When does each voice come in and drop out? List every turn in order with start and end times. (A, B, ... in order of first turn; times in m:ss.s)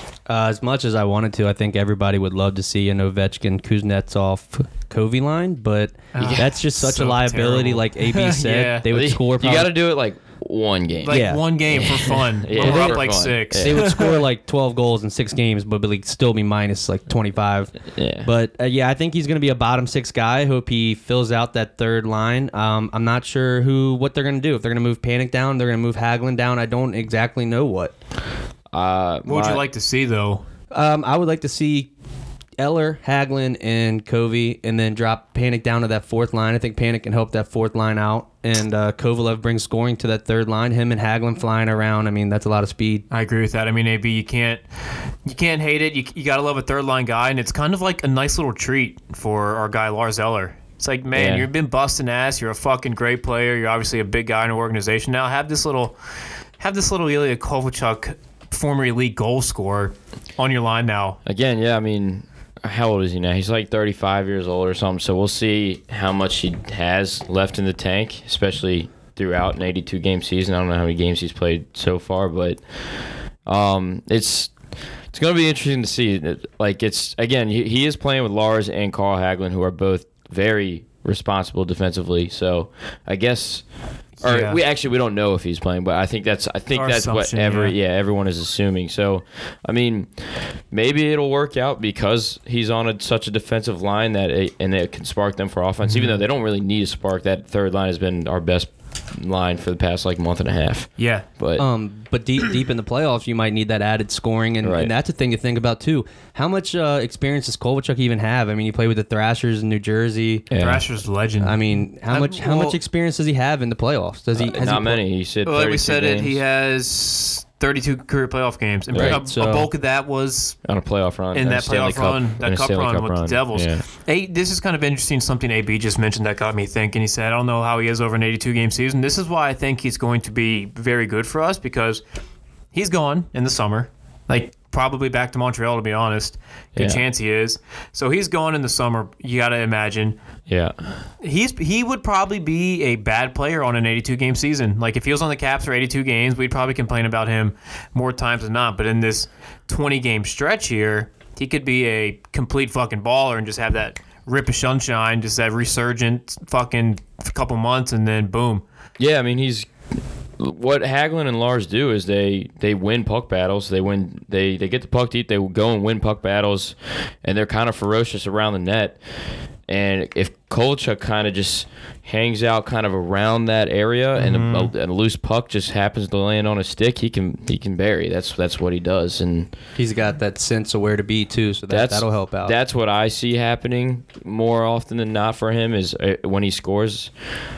0:00.3-0:09.7 A
0:06.1-0:08.8 B
0:06.2-0:06.5 C
0:08.9-0:13.8 C
0:11.0-0:14.2 B
0:11.1-0:11.4 A
0:12.6-0:13.0 A
0:13.5-0:27.9 A
0:17.9-0:18.3 C
0:28.7-0:29.6 C
0:29.2-0:30.4 B
0:30.7-0:31.9 A
0:32.6-0:43.0 A
0:43.1-0:44.6 B
0:45.2-0:55.9 B
0:51.1-0:51.5 C
0:56.6-1:01.2 B
1:01.2-1:12.6 C
1:13.4-1:14.5 C
1:15.1-1:23.6 C
1:24.2-1:24.6 B
1:24.2-1:41.6 C
1:26.7-1:27.7 B
1:35.8-1:36.2 B
1:41.0-1:41.2 B
1:41.6-1:50.5 A
1:44.6-1:44.9 C
1:50.5-1:50.8 C
1:50.5-1:52.8 B
1:51.4-1:55.0 A
1:54.4-1:56.4 C
1:55.4-2:00.6 B
1:58.9-1:59.2 C
1:58.9-1:59.7 A
2:00.6-2:03.8 C
2:01.3-2:12.0 B
2:12.7-2:20.2 B
2:16.7-2:17.0 C
2:20.5-2:21.0 C
2:21.2-2:38.6 B
2:39.0-2:39.7 C
2:40.4-2:49.0 C
2:49.7-2:59.5 C
2:54.2-2:54.7 B
2:59.8-3:02.5 A
3:01.7-3:07.1 C